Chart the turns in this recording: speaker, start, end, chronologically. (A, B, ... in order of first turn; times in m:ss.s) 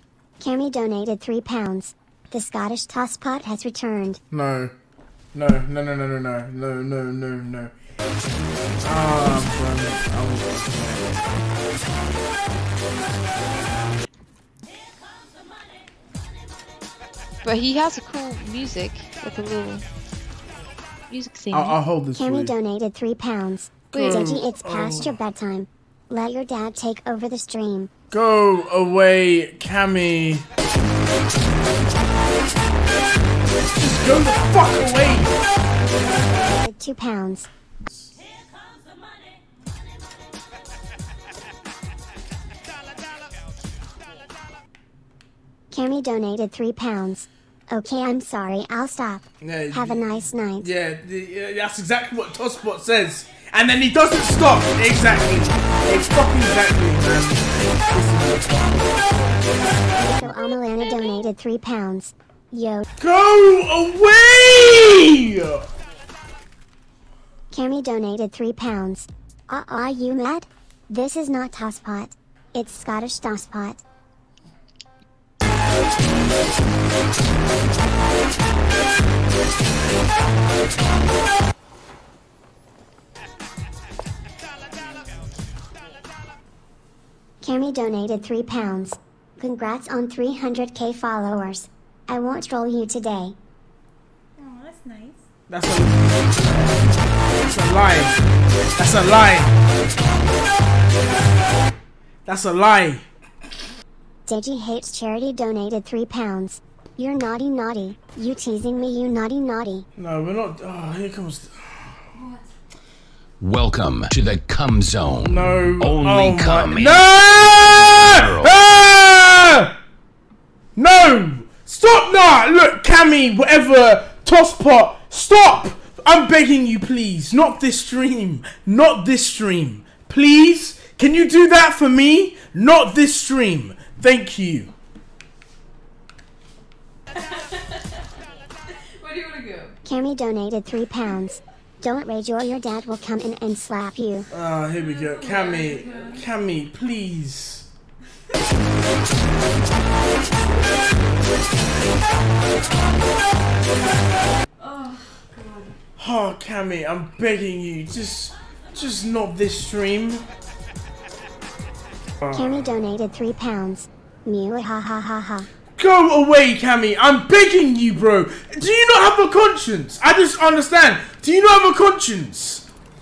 0:00.4-0:04.2 A
0:04.3-0:04.7 B
0:05.3-0:07.7 B
0:08.8-0:11.2 B
0:17.4-0:19.8 C
0:21.1-0:21.8 C
0:21.5-0:22.5 B
0:22.2-0:27.9 A
0:23.9-0:24.4 C
0:23.9-0:25.2 B
0:28.1-0:30.5 B
0:33.8-0:35.4 B
0:35.8-0:37.5 A
0:45.7-0:50.7 A
0:49.4-0:59.8 B
1:00.0-1:02.9 A
1:03.0-1:05.6 B
1:07.5-1:13.8 A
1:27.4-1:33.4 A
1:34.4-1:35.2 D
1:35.5-1:38.2 B
1:38.8-1:39.6 B
1:42.3-1:43.0 B
1:44.3-1:49.9 A
1:50.0-1:51.9 B
1:53.4-1:57.0 E
1:55.2-1:59.7 B
1:57.6-1:58.5 E
2:00.8-2:14.7 B
2:19.0-2:19.7 D
2:19.0-2:19.7 C
2:19.8-2:24.3 A
2:24.3-2:27.7 B
2:24.8-2:26.2 D
2:34.6-2:35.7 D
2:36.0-2:40.3 B
2:42.2-2:42.7 B
2:42.3-2:45.5 A
2:45.8-2:52.7 B